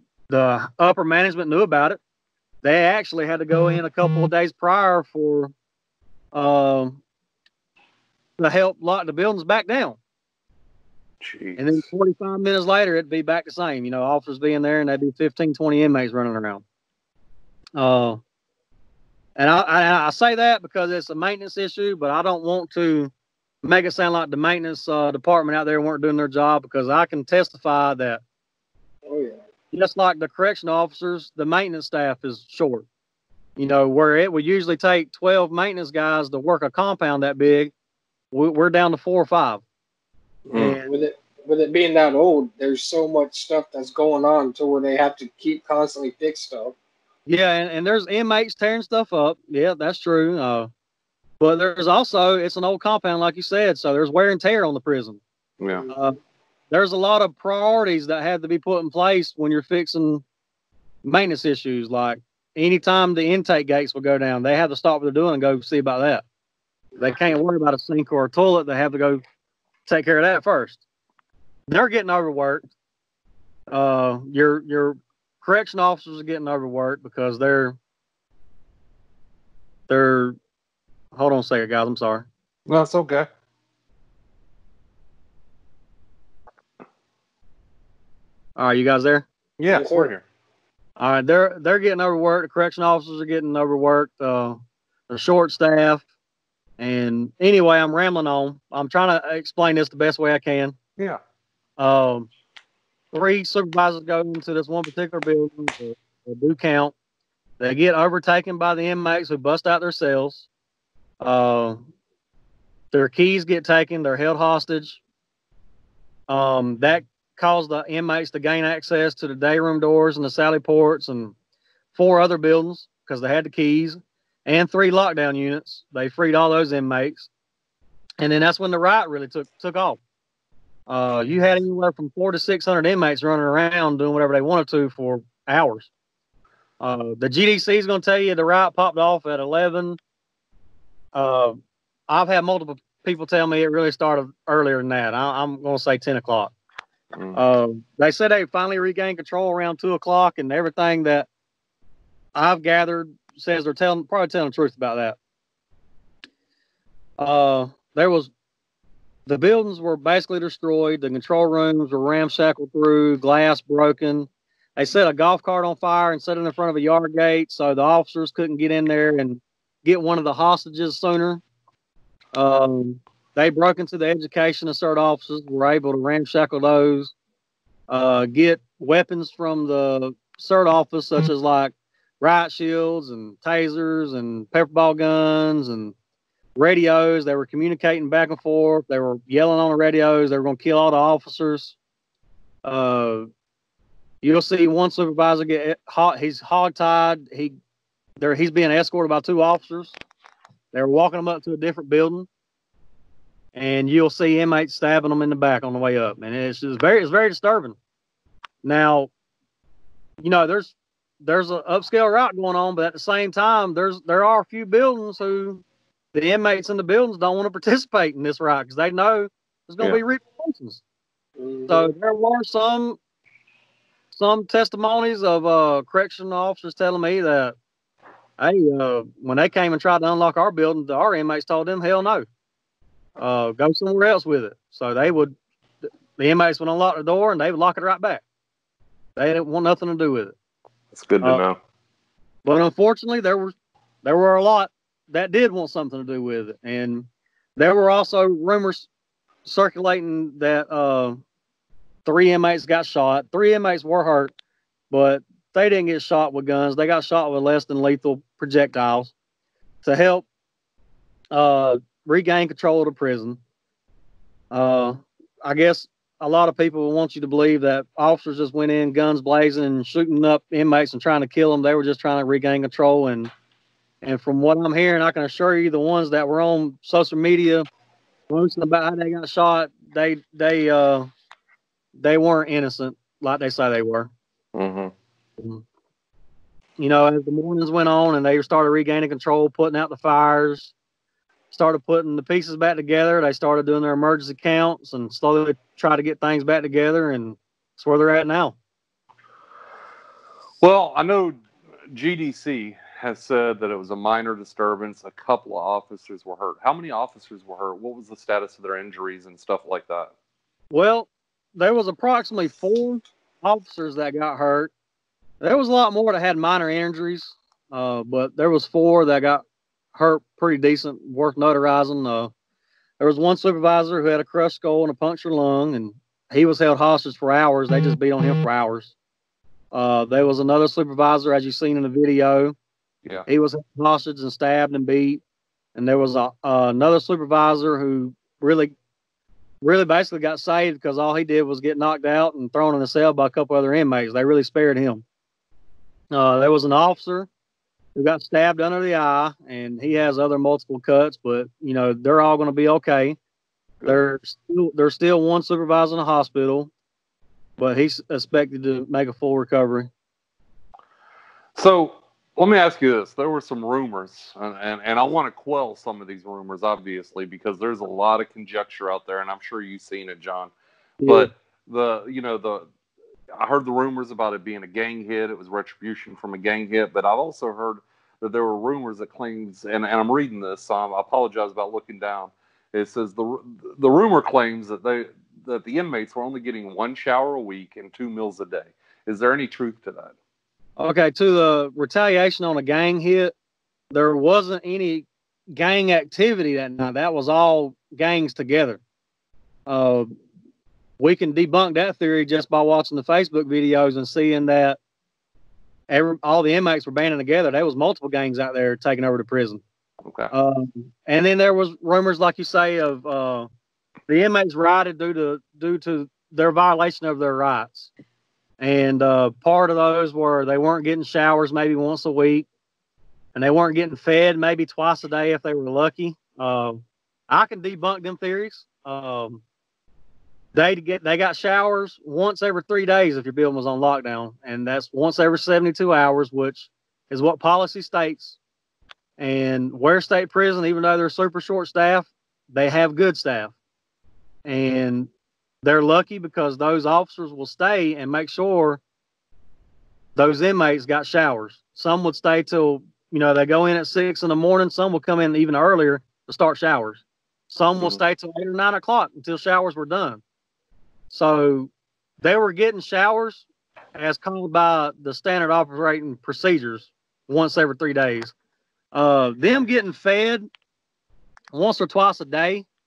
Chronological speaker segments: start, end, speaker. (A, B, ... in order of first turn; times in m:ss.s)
0:00.3-0:02.0 A
0:02.6-0:05.5 A
0:06.3-0:07.0 A
0:08.4-0:10.0 A
0:11.2-0:11.8 B
0:11.6-0:16.6 A
0:17.8-0:18.2 A
0:19.4-0:23.1 A
0:23.6-0:28.2 A
0:29.0-0:29.4 C
0:29.7-0:32.9 A
0:33.6-0:37.7 A
0:38.3-0:39.6 A
0:40.5-0:40.8 B
0:40.5-0:41.0 A
0:40.8-0:46.7 C
0:47.3-0:50.7 A
0:51.4-0:55.2 A
0:55.6-0:55.8 B
0:55.7-0:55.9 C
0:55.9-0:56.2 A
0:56.7-1:00.2 A
1:01.0-1:06.2 A
1:07.0-1:09.2 A
1:09.8-1:10.8 A
1:11.7-1:12.6 A
1:13.7-1:17.8 A
1:19.9-1:20.4 A
1:21.1-1:22.3 A
1:22.7-1:23.3 B
1:28.6-1:29.3 A
1:29.6-1:30.2 B
1:29.7-1:30.1 C
1:31.0-1:36.0 A
1:36.8-1:40.8 A
1:41.8-1:42.3 A
1:43.1-1:46.9 A
1:47.6-1:50.5 A
1:51.2-1:51.8 A
1:52.9-1:55.0 A
1:56.3-2:01.3 A
2:01.9-2:07.3 A
2:08.2-2:10.0 A
2:10.9-2:15.9 A
2:16.8-2:20.0 A
2:21.1-2:26.5 A
2:27.1-2:27.4 B
2:27.4-2:31.3 A
2:32.3-2:35.2 A
2:37.2-2:38.3 A
2:39.3-2:51.4 A
2:52.3-2:57.1 A
2:57.9-3:05.9 A
3:06.6-3:11.8 A
3:12.6-3:13.3 A
3:14.2-3:17.6 A
3:18.2-3:20.0 A
3:20.7-3:22.3 A
3:23.5-3:27.8 A
3:28.6-3:29.1 A
3:30.2-3:40.8 A
3:41.4-3:41.9 C
3:41.7-3:43.0 A
3:44.1-3:47.6 A
3:48.4-3:52.2 A
3:53.2-3:58.2 A
3:59.2-4:00.3 A
4:00.9-4:01.6 B
4:02.4-4:08.9 A
4:09.4-4:11.2 A
4:12.0-4:14.3 A
4:14.9-4:19.1 A
4:19.8-4:20.2 A
4:21.3-4:23.4 A
4:24.5-4:33.3 A
4:34.0-4:37.6 A
4:38.3-4:41.1 A
4:42.0-4:44.1 A
4:44.5-4:44.9 B
4:45.4-4:45.6 A
4:46.8-4:50.7 A
4:51.5-4:58.6 A
5:00.6-5:10.1 B
5:10.7-5:14.7 A
5:15.4-5:22.3 A
5:23.0-5:28.9 A
5:29.7-5:32.6 A
5:33.3-5:35.2 A
5:35.7-5:38.7 A
5:39.6-5:45.0 A
5:46.1-5:47.3 A
5:47.9-5:53.2 A
5:53.8-5:56.7 A
5:57.6-5:59.9 A
6:01.5-6:10.5 B
6:11.0-6:11.3 A
6:11.0-6:12.7 B
6:13.3-6:30.1 B
6:30.8-6:33.3 A
6:33.9-6:38.8 A
6:39.7-6:40.1 A
6:41.0-6:44.8 A
6:45.9-6:49.6 A
6:50.0-6:50.3 B
6:50.3-6:53.5 A
6:54.1-6:57.9 A
6:58.6-7:02.5 A
7:03.3-7:09.4 A
7:10.5-7:18.4 A
7:19.2-7:23.5 A
7:24.4-7:25.1 A
7:25.6-7:28.8 A
7:30.2-7:40.2 A
7:41.1-7:41.7 A
7:42.2-7:48.3 A
7:48.9-7:50.5 A
7:51.5-7:52.6 A